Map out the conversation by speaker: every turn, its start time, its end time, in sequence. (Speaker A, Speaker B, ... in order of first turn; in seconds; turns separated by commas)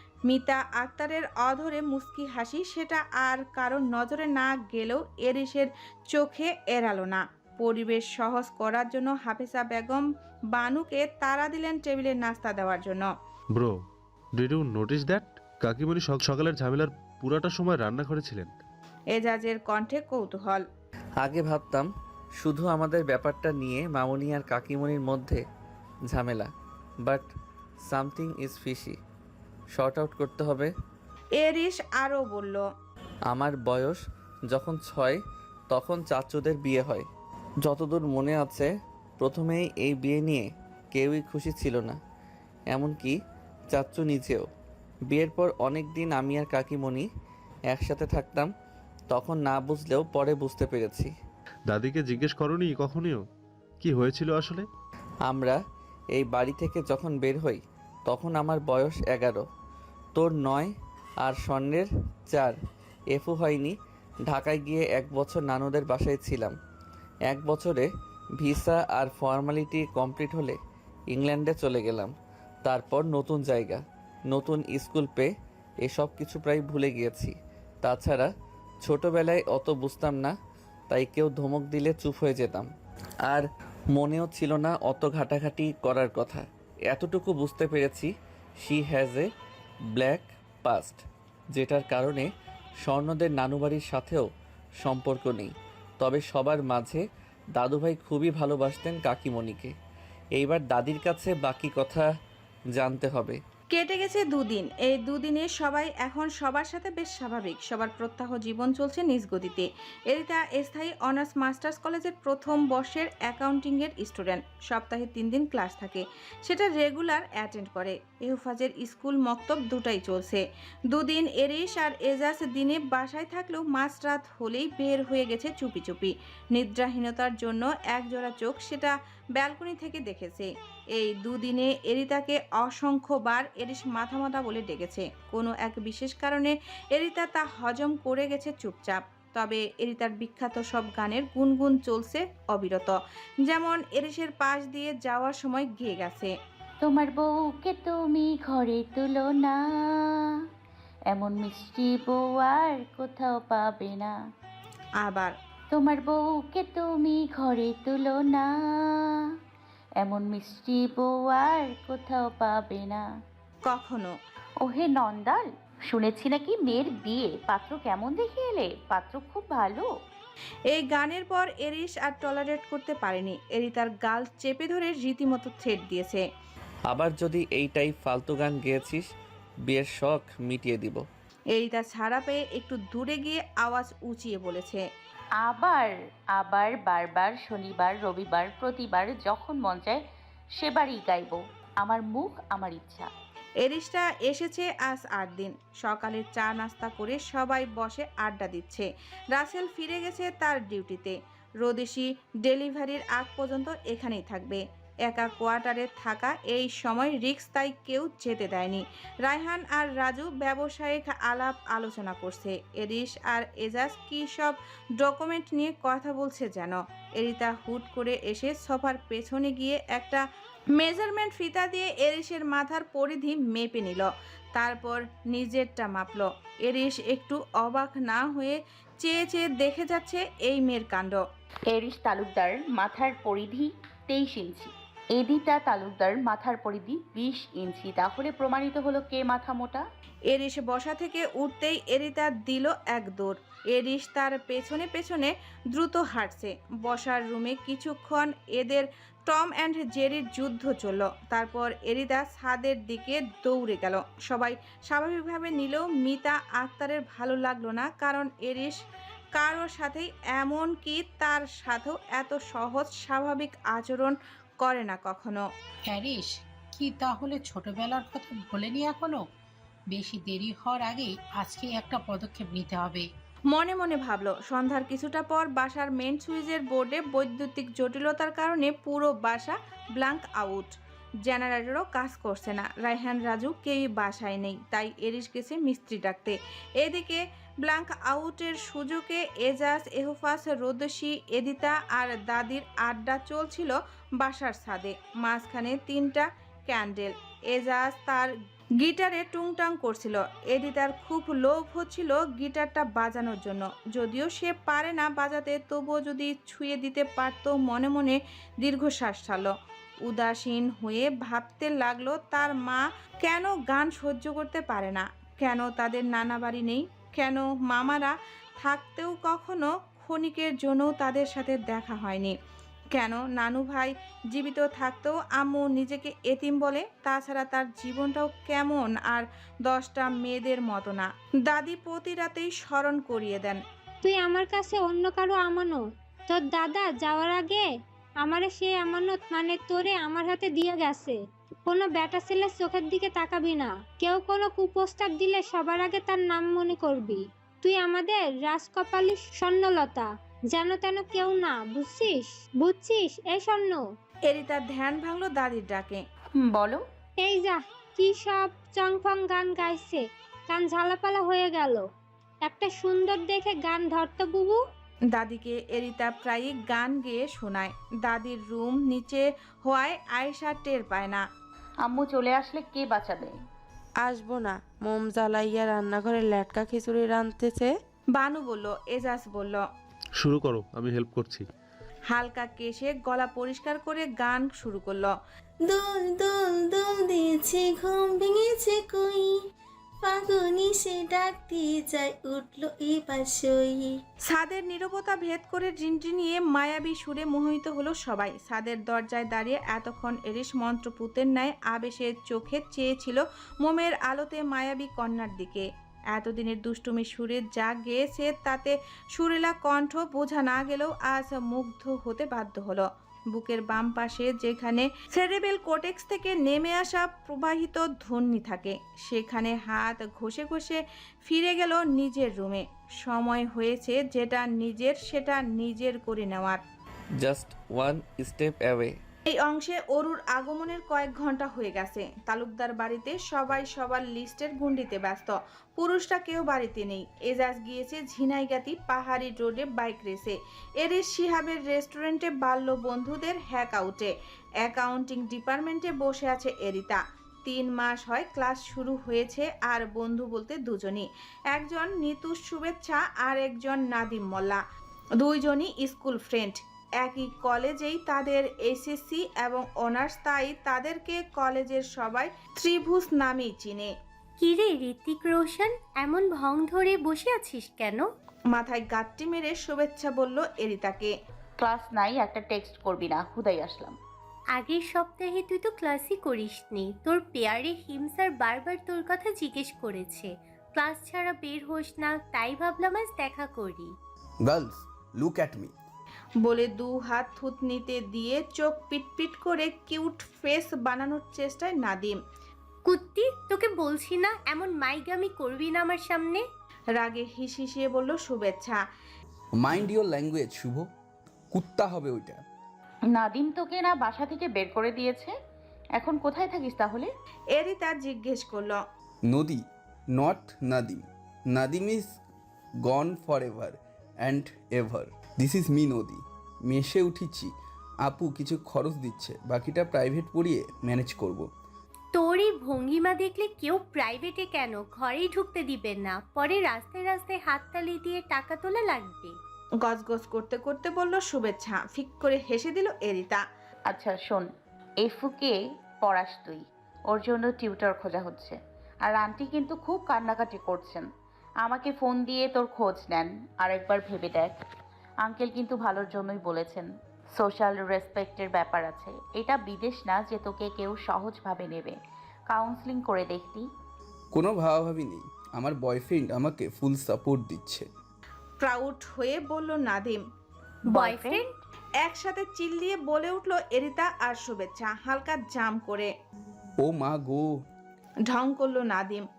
Speaker A: 0.3-13.1, Speaker B: 14.3-18.6, Speaker A: 19.1-20.6, Speaker C: 21.2-25.4, Speaker C: 26.1-26.5, Speaker C: 27.0-27.3, Speaker C: 27.9-29.0, Speaker C: 29.7-30.7, Speaker A: 31.4-32.6, Speaker C: 33.3-37.1, Speaker C: 37.6-42.0, Speaker C: 42.7-43.2, Speaker C: 43.7-44.5, Speaker C: 45.1-47.1, Speaker C: 47.7-48.5, Speaker C: 49.1-51.1, Speaker B: 51.7-53.2, Speaker B: 53.8-54.7, Speaker C: 55.2-55.6, Speaker C: 56.1-59.5, Speaker C: 60.1-62.5, Speaker C: 63.1-63.8, Speaker C: 64.3-66.6, Speaker C: 67.3-70.6, Speaker C: 71.1-72.1, Speaker C: 72.6-75.3, Speaker C: 75.8-78.3, Speaker C: 78.8-80.3, Speaker C: 80.9-82.7, Speaker C: 83.3-88.1, Speaker C: 88.6-89.3, Speaker C: 89.9-91.0, Speaker C: 91.5-92.3, Speaker C: 92.8-94.3, Speaker C: 94.8-99.7, Speaker C: 100.3-102.1, Speaker C: 102.7-103.4, Speaker A: 103.7-146.3, Speaker D: 146.8-149.6, Speaker D: 151.1-154.1, Speaker A: 155.0-155.3, Speaker D: 155.7-158.5, Speaker D: 160.0-163.0, Speaker A: 163.6-164.1, Speaker D: 164.6-169.9, Speaker A: 170.7-176.2, Speaker C: 176.9-179.1, Speaker C: 179.7-181.0, Speaker A: 181.5-184.8, Speaker D: 185.4-190.0, Speaker D: 190.6-193.1, Speaker A: 193.6-220.2, Speaker A: 220.8-231.2, Speaker D: 231.7-239.8, Speaker A: 240.3-258.8, Speaker A: 259.4-265.4, Speaker E: 265.9-269.2, Speaker E: 269.9-273.1, Speaker A: 273.5-309.5, Speaker A: 310.1-322.3, Speaker A: 322.9-333.6, Speaker F: 334.0-337.6, Speaker F: 338.2-353.8, Speaker A: 354.3-356.0, Speaker D: 356.4-356.8, Speaker F: 357.2-361.8, Speaker F: 362.4-364.6, Speaker A: 365.1-371.2, Speaker D: 371.9-373.3, Speaker G: 374.0-377.7, Speaker A: 378.1-379.6, Speaker B: 380.2-381.4, Speaker A: 382.1-385.1, Speaker H: 385.7-389.4, Speaker H: 390.0-393.9, Speaker A: 394.3-426.6, Speaker C: 427.2-429.0, Speaker A: 429.3-454.6, Speaker A: 455.2-463.9, Speaker I: 464.4-468.1, Speaker A: 468.5-471.1, Speaker D: 471.6-473.9, Speaker I: 474.5-483.9, Speaker J: 484.4-485.7, Speaker A: 486.4-492.2, Speaker I: 492.9-496.4, Speaker A: 497.0-498.8, Speaker J: 499.6-500.9, Speaker J: 501.5-502.4, Speaker D: 503.1-505.3, Speaker D: 506.0-507.1, Speaker A: 507.5-508.8, Speaker J: 509.3-509.6, Speaker J: 510.1-512.1, Speaker J: 512.9-517.5, Speaker J: 518.0-521.5, Speaker I: 522.1-529.4, Speaker A: 529.8-533.4, Speaker D: 533.9-534.5, Speaker D: 535.0-541.0, Speaker D: 541.6-544.5, Speaker D: 545.2-552.0, Speaker D: 552.5-553.6, Speaker J: 554.3-557.9, Speaker A: 558.6-560.2, Speaker D: 560.9-561.5, Speaker I: 560.9-561.4, Speaker A: 562.0-566.1, Speaker J: 566.8-567.5, Speaker A: 568.3-569.2